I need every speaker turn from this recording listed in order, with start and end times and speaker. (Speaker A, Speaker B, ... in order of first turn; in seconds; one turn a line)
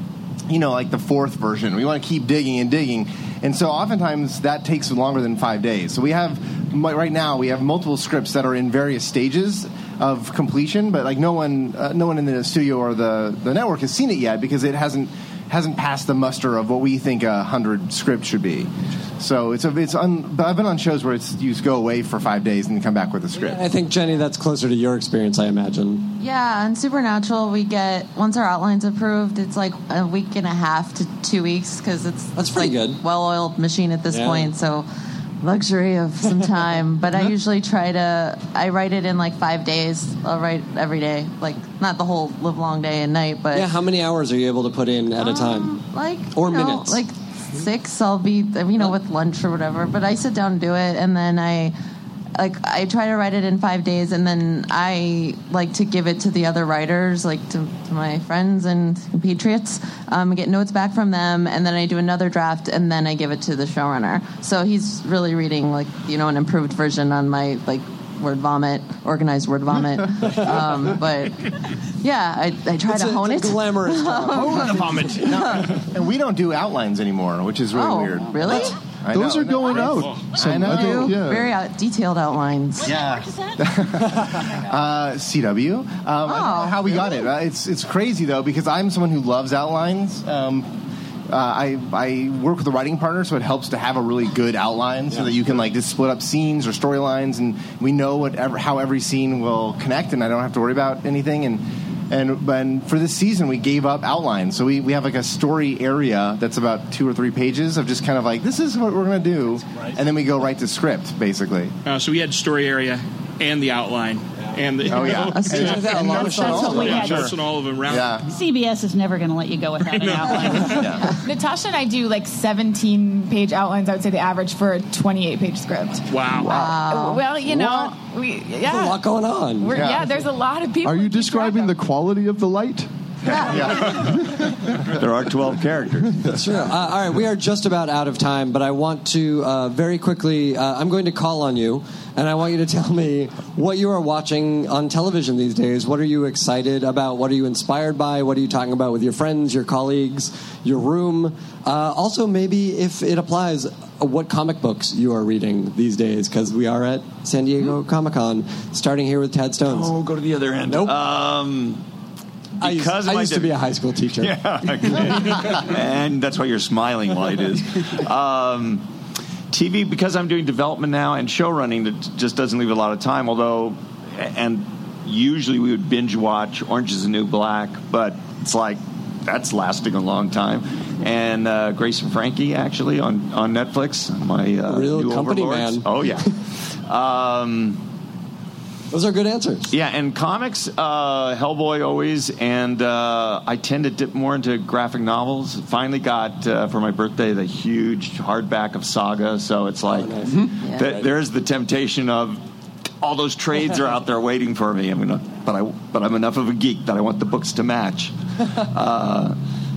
Speaker A: 0.5-18.7
Speaker A: 19.2-23.6
Speaker B: 23.3-26.1
Speaker C: 26.2-34.9
Speaker B: 32.4-33.0
Speaker B: 34.1-34.5
Speaker C: 35.4-43.7
Speaker B: 43.5-45.7
Speaker C: 45.2-51.7
Speaker B: 46.4-47.0
Speaker C: 52.4-75.4
Speaker B: 72.8-75.1
Speaker A: 74.6-81.2
Speaker C: 77.7-78.8
Speaker D: 79.1-81.5
Speaker C: 80.5-83.0
Speaker E: 82.8-83.5
Speaker A: 82.8-90.7
Speaker C: 86.3-87.2
Speaker A: 91.3-111.7
Speaker F: 111.9-118.3
Speaker A: 114.8-118.3
Speaker C: 115.3-115.7
Speaker B: 115.4-117.3
Speaker E: 118.3-120.9
Speaker F: 119.9-121.0
Speaker G: 121.2-131.8
Speaker F: 126.1-126.5
Speaker C: 126.5-127.3
Speaker B: 128.7-129.8
Speaker A: 129.7-130.1
Speaker D: 130.8-132.9
Speaker C: 133.3-133.8
Speaker A: 133.3-134.7
Speaker D: 133.8-134.5
Speaker H: 134.9-136.3
Speaker B: 136.2-159.9
Speaker H: 159.7-161.8
Speaker B: 160.7-161.0
Speaker H: 162.6-163.6
Speaker B: 162.6-164.3
Speaker H: 164.2-168.9
Speaker H: 169.5-187.8
Speaker B: 184.7-185.9
Speaker B: 188.9-189.7
Speaker H: 189.7-202.4
Speaker B: 199.9-201.1
Speaker H: 203.0-209.4